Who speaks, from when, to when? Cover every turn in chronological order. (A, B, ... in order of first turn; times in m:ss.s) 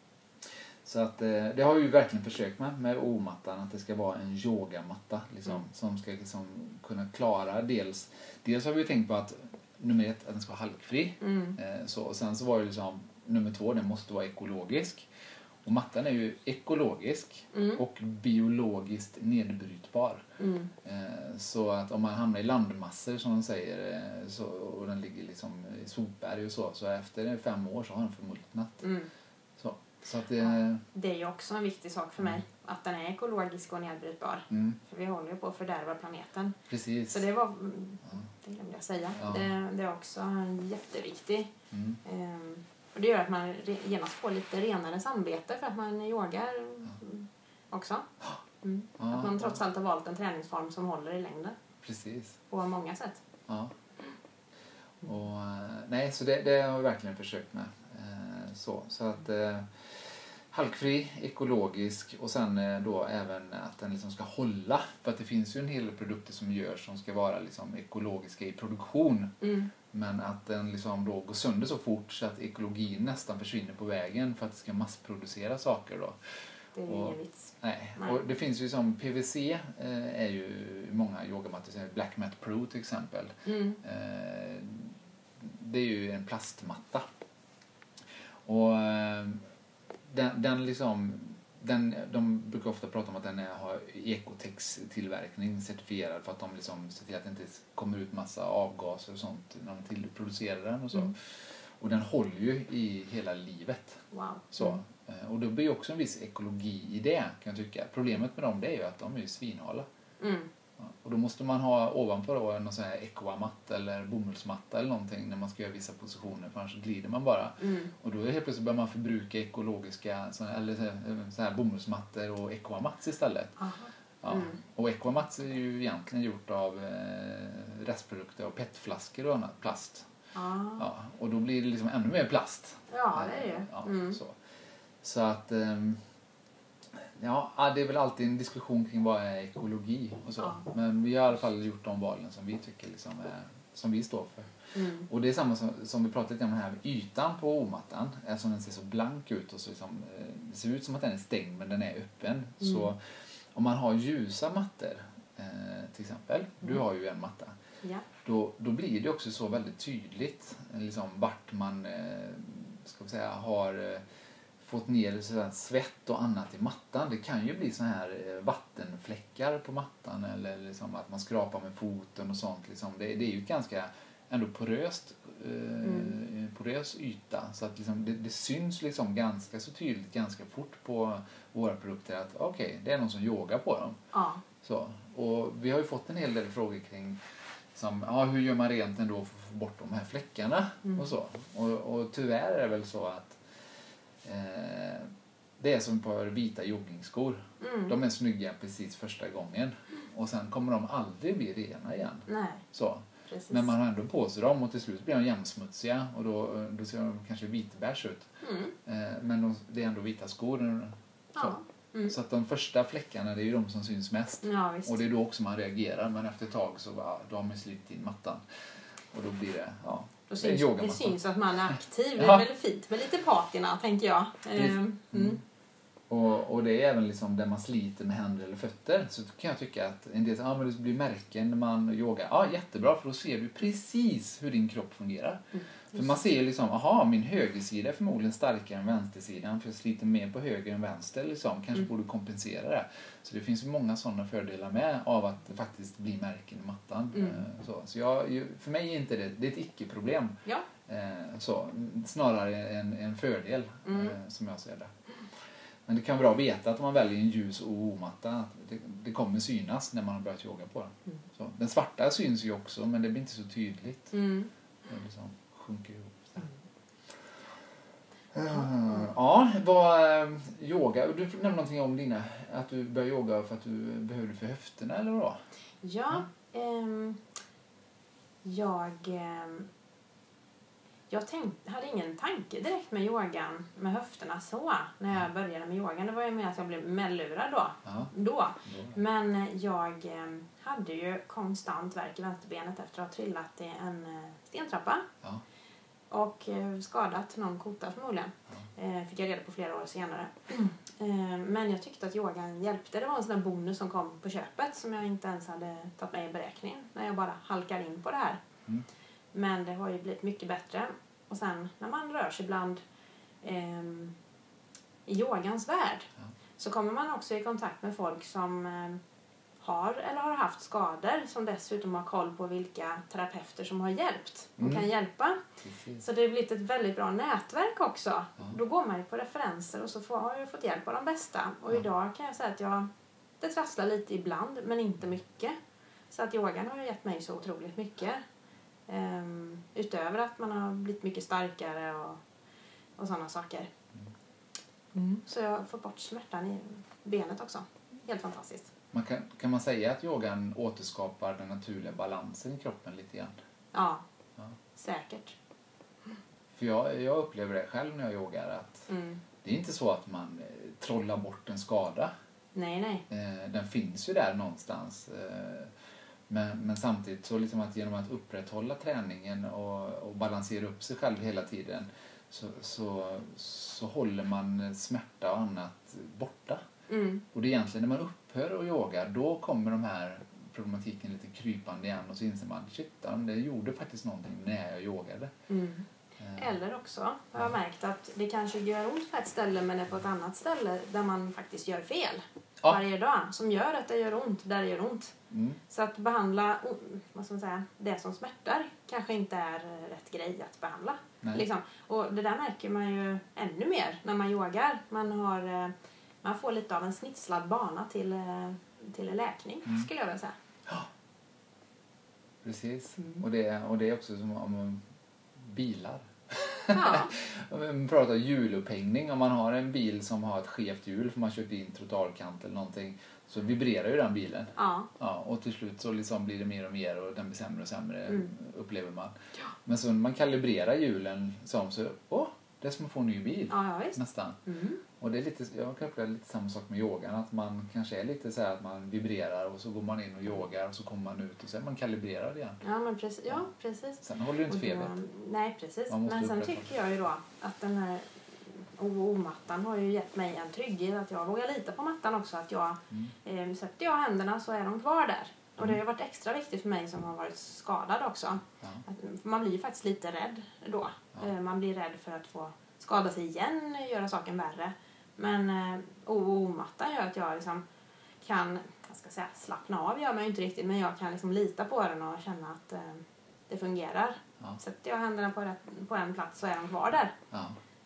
0:00.8-0:15.1 A
0:11.2-0:11.6 B
0:15.6-0:20.2 A
0:17.5-0:17.8 B
0:20.4-0:20.7 B
0:20.8-0:28.8 A
0:28.8-0:29.1 B
0:29.6-0:30.8 A
0:30.4-0:36.6 B
0:34.5-0:34.8 A
0:36.7-0:37.2 A
0:37.1-0:41.5 B
0:39.2-0:39.5 A
0:41.7-0:42.0 A
0:42.0-0:48.1 B
0:48.6-0:51.6 B
0:49.0-0:49.6 A
0:51.8-0:52.4 A
0:52.5-0:53.2 B
0:53.5-0:53.7 A
0:55.0-0:59.8 A
1:00.5-1:09.3 A
1:09.4-1:09.7 B
1:09.9-1:16.2 A
1:16.7-1:18.3 B
1:16.8-1:27.0 A
1:23.4-1:23.8 B
1:28.4-1:29.4 A
1:30.1-1:49.8 A
1:44.1-1:44.8 B
1:50.2-1:50.5 B
1:50.8-2:03.6 A
1:57.6-1:57.9 B
2:03.6-2:04.6 B
2:04.2-2:10.1 A
2:10.3-2:10.9 B
2:10.8-2:14.4 A
2:12.9-2:14.2 B
2:15.0-2:16.0 A
2:17.1-2:24.5 A
2:24.7-2:25.1 B
2:25.1-2:33.0 A
2:32.6-2:32.9 B
2:33.5-2:37.5 A
2:38.2-2:44.0 A
2:44.6-3:04.0 A
2:55.8-2:56.1 B
3:04.1-3:04.4 B
3:04.6-3:07.2 A
3:07.7-3:13.4 A
3:14.2-3:28.3 A
3:17.6-3:18.0 B
3:22.3-3:22.6 B
3:23.3-3:23.7 B
3:28.4-3:28.7 B
3:28.8-3:38.4 A
3:31.3-3:32.2 B
3:34.4-3:35.0 B
3:39.1-3:41.2 A
3:40.3-3:45.4 B
3:42.2-3:42.4 A
3:44.5-3:45.4 A
3:46.1-4:14.9 A
4:07.1-4:07.4 B
4:13.9-4:14.1 B
4:15.8-4:24.2 A
4:24.1-4:24.5 B
4:24.9-4:26.5 A
4:28.3-4:35.4 A
4:28.5-4:29.1 B
4:35.8-4:37.2 B
4:38.4-4:39.7 B
4:41.1-4:55.0 B
4:47.8-4:48.1 A
4:48.6-4:49.0 A
4:56.1-5:08.4 B
5:09.3-5:12.8 B
5:13.4-5:14.1 B
5:15.0-5:19.0 B
5:19.6-5:25.4 B
5:24.6-5:24.8 A
5:25.6-5:26.0 A
5:26.0-5:32.9 B
5:33.4-5:35.6 B
5:36.1-5:38.2 B
5:38.9-5:42.2 B
5:43.0-5:43.7 B
5:44.9-5:48.7 B
5:48.9-5:53.3 A
5:53.7-5:54.0 B
5:54.8-5:55.4 B
5:56.5-5:58.9 A
5:58.9-5:59.2 B
5:59.4-6:02.1 A
6:02.5-6:03.0 B
6:03.1-6:05.7 A
6:06.3-6:16.6 A
6:16.9-6:17.2 B
6:17.3-6:25.3 A
6:25.5-6:25.8 B
6:26.2-6:26.5 A
6:26.4-6:35.1 B
6:35.3-6:35.6 A
6:35.7-6:50.3 B
6:52.4-6:54.8 A
6:55.4-7:14.4 A
6:56.7-6:57.1 B
7:04.6-7:04.9 B
7:13.5-7:14.8 B
7:15.0-7:22.6 A
7:22.6-7:47.6 B
7:24.0-7:24.9 A
7:25.9-7:26.7 A
7:48.2-7:57.1 B
7:57.3-7:57.6 A